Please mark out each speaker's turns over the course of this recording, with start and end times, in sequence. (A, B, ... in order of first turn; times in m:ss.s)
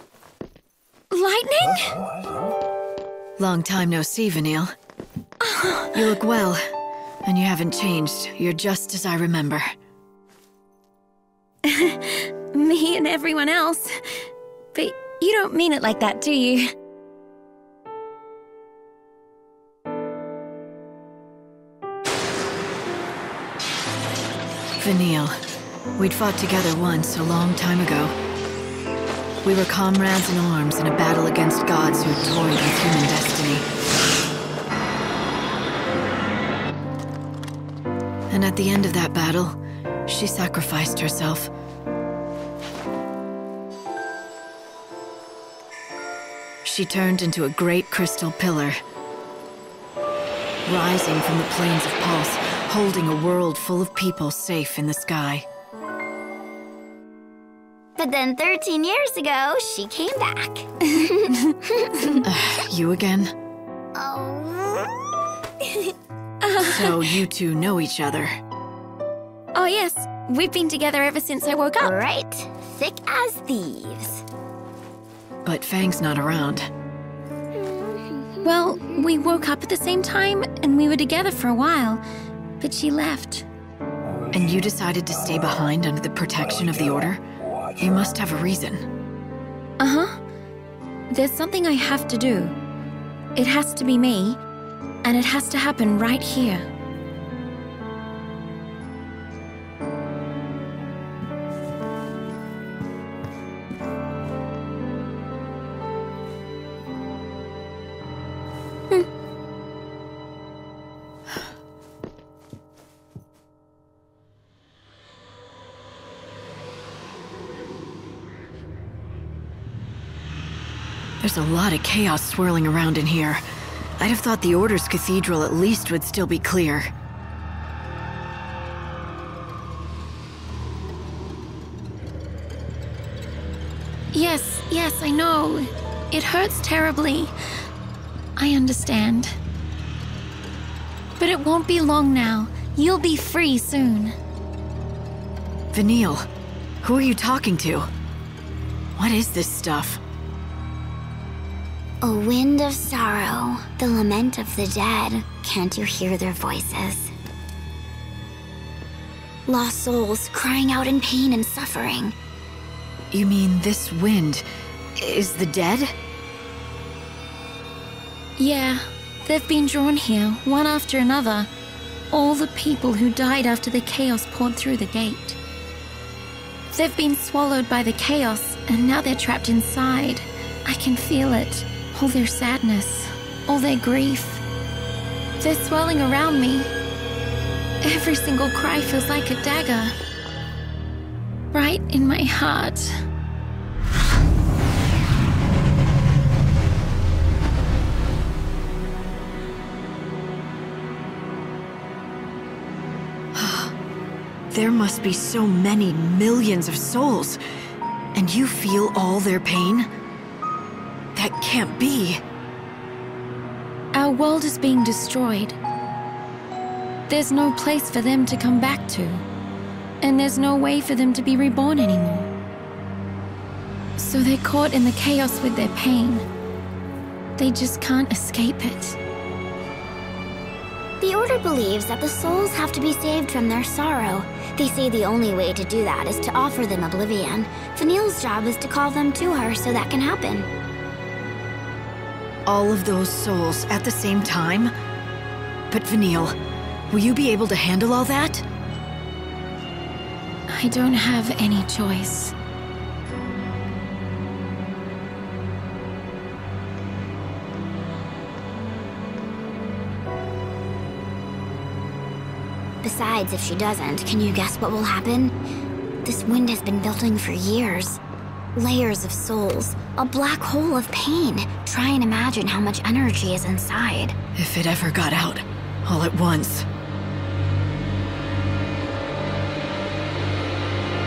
0:01.1-0:02.0 A
0:03.4-0:04.7 B
0:05.4-0:06.0 A
0:05.9-0:06.6 B
0:07.2-0:09.6 B
0:11.6-0:14.0 A
0:14.7-0:16.7 A
0:24.8-0:25.3 B
0:26.0-0:28.1 B
0:29.4-0:33.6 B
0:38.3-0:41.5 B
0:46.6-0:48.8 B
0:50.6-0:55.4 B
0:58.0-1:02.2 C
1:01.3-1:02.1 A
1:02.2-1:03.3 B
1:04.0-1:04.9 C
1:06.4-1:07.2 A
1:06.6-1:08.3 B
1:09.5-1:12.0 A
1:11.8-1:14.2 C
1:15.4-1:16.7 B
1:17.5-1:19.2 C
1:18.4-1:22.0 A
1:22.6-1:23.4 A
1:24.3-1:27.2 B
1:27.8-1:28.8 B
1:29.8-1:30.1 A
1:31.1-1:32.5 A
1:33.3-1:34.4 A
1:35.0-1:36.6 A
2:01.2-2:03.4 B
2:04.0-2:06.9 B
2:14.1-2:17.3 A
2:18.4-2:19.3 A
2:21.2-2:24.1 A
2:25.7-2:26.2 B
2:26.8-2:27.9 B
2:29.0-2:30.0 B
2:32.0-2:37.1 C
2:39.5-2:42.1 C
2:43.1-2:44.4 B
2:45.0-2:45.9 B
2:48.4-2:51.5 A
2:52.1-2:55.4 A
2:56.7-3:04.4 A
3:05.4-3:06.7 A
3:07.8-3:09.9 A
3:11.5-3:12.9 A
3:23.3-3:23.7 B
3:24.5-3:27.4 B
3:28.1-3:29.9 B
3:31.1-3:32.2 B
3:33.9-3:35.6 A
3:37.1-3:39.2 A
3:40.0-3:42.3 A
3:44.0-3:46.2 A
3:47.4-3:49.0 A
3:51.0-4:00.5 C
4:02.4-4:04.7 B
4:05.7-4:06.3 B
4:06.9-4:08.4 B
4:10.5-4:12.3 A
4:22.8-4:25.3 C
4:26.0-4:28.0 C
4:28.6-4:34.1 C
4:34.4-4:36.6 B